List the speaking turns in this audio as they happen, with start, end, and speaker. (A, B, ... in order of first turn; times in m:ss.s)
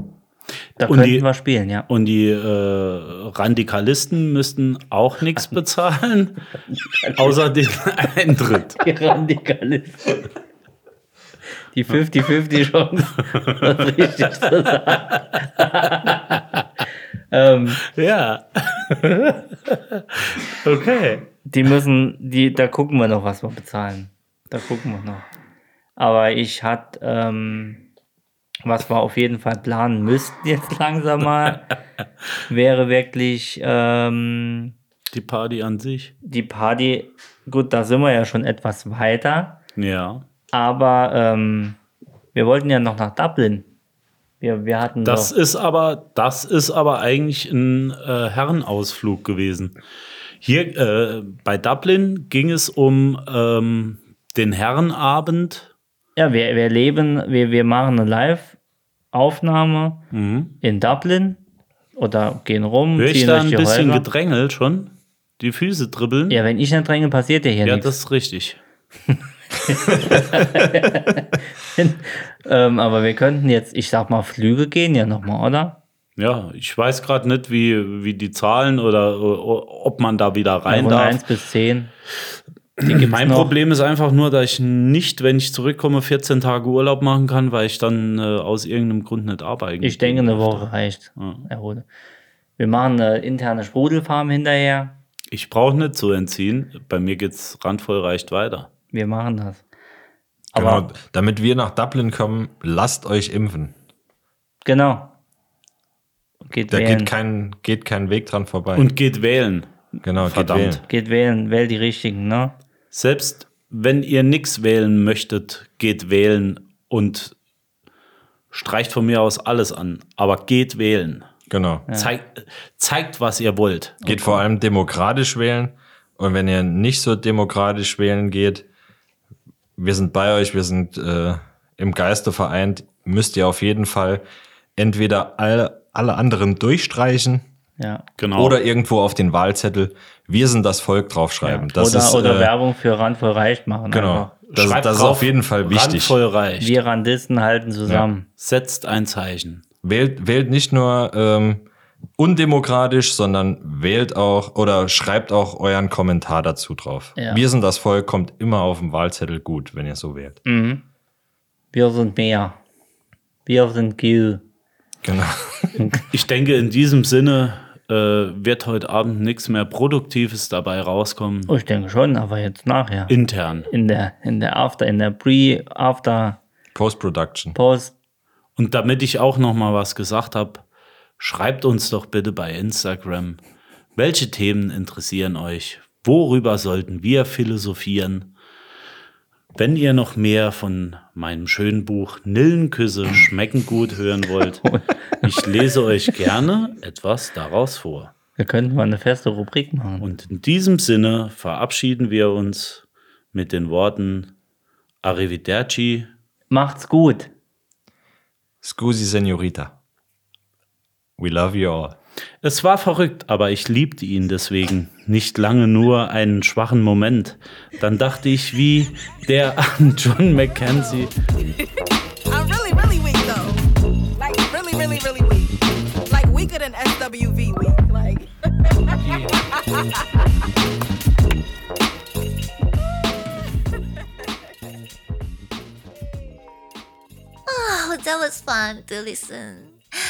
0:00.8-0:01.8 A
0:00.8-0:01.3 B
0:01.9-0:06.4 B
0:07.0-0:07.4 A
0:07.1-0:08.8 B
0:08.8-0:10.2 A
0:11.7-0:16.4 A
0:13.4-0:13.7 B
0:14.9-0:15.2 B
0:15.9-0:16.6 B
0:17.3-0:17.8 A
0:17.8-0:19.3 B
0:20.0-0:21.2 B
0:21.4-0:25.3 A
0:26.0-0:27.8 A
0:28.6-0:31.7 A
0:32.5-0:34.7 A
0:35.1-0:36.1 B
0:36.2-0:39.6 A
0:39.8-0:40.2 B
0:40.5-0:41.8 A
0:42.3-0:43.7 A
0:44.4-0:45.3 A
0:45.0-0:49.8 B
0:50.4-0:55.7 B
0:56.2-0:58.6 A
0:59.1-1:00.0 A
1:00.1-1:00.6 B
1:00.6-1:01.4 A
1:02.0-1:04.0 A
1:03.0-1:06.4 B
1:06.3-1:07.9 A
1:07.6-1:08.6 B
1:09.7-1:15.8 A
1:16.2-1:21.2 B
1:20.7-1:21.9 A
1:22.8-1:31.4 B
1:22.8-1:23.5 A
1:29.8-1:31.8 A
1:32.6-1:35.0 A
1:35.3-1:38.7 B
1:38.9-1:39.6 A
1:40.5-1:40.9 A
1:40.5-1:43.7 C
1:44.6-1:45.1 A
1:46.4-1:47.1 A
1:46.7-1:48.9 C
1:48.7-1:49.7 B
1:50.0-1:50.8 C
1:50.2-1:50.8 B
1:50.8-1:52.6 A
1:52.9-1:57.3 B
1:58.5-2:01.3 B
2:01.5-2:01.8 C
2:01.9-2:04.1 B
2:04.0-2:08.6 C
2:04.1-2:04.4 A
2:09.8-2:14.2 C
2:14.8-2:17.4 C
2:17.8-2:18.0 A
2:18.2-2:18.6 B
2:18.4-2:22.5 C
2:21.4-2:24.3 A
2:23.9-2:26.2 C
2:24.4-2:26.8 B
2:26.6-2:28.3 A
2:28.4-2:29.6 B
2:29.8-2:31.6 C
2:32.2-2:40.4 C
2:37.2-2:37.4 A
2:40.4-2:40.8 A
2:41.7-2:42.6 A
2:43.4-2:44.4 A
2:45.0-2:45.8 C
2:45.8-2:46.0 A
2:46.1-2:51.5 B
2:51.5-2:53.1 A
2:53.1-2:53.7 B
2:53.7-2:56.4 A
2:56.7-2:57.6 C
2:57.5-2:57.9 A
2:58.6-3:00.6 B
3:01.2-3:03.4 B
3:04.0-3:08.3 B
3:09.5-3:14.7 B
3:14.6-3:15.4 A
3:15.2-3:18.1 B
3:18.4-3:20.0 A
3:20.0-3:24.3 B
3:25.0-3:26.1 B
3:26.5-3:27.3 A
3:28.6-3:29.7 C
3:31.2-3:32.0 C
3:32.4-3:41.1 B
3:42.3-3:45.6 D
3:46.1-3:50.2 D
3:57.5-3:59.8 E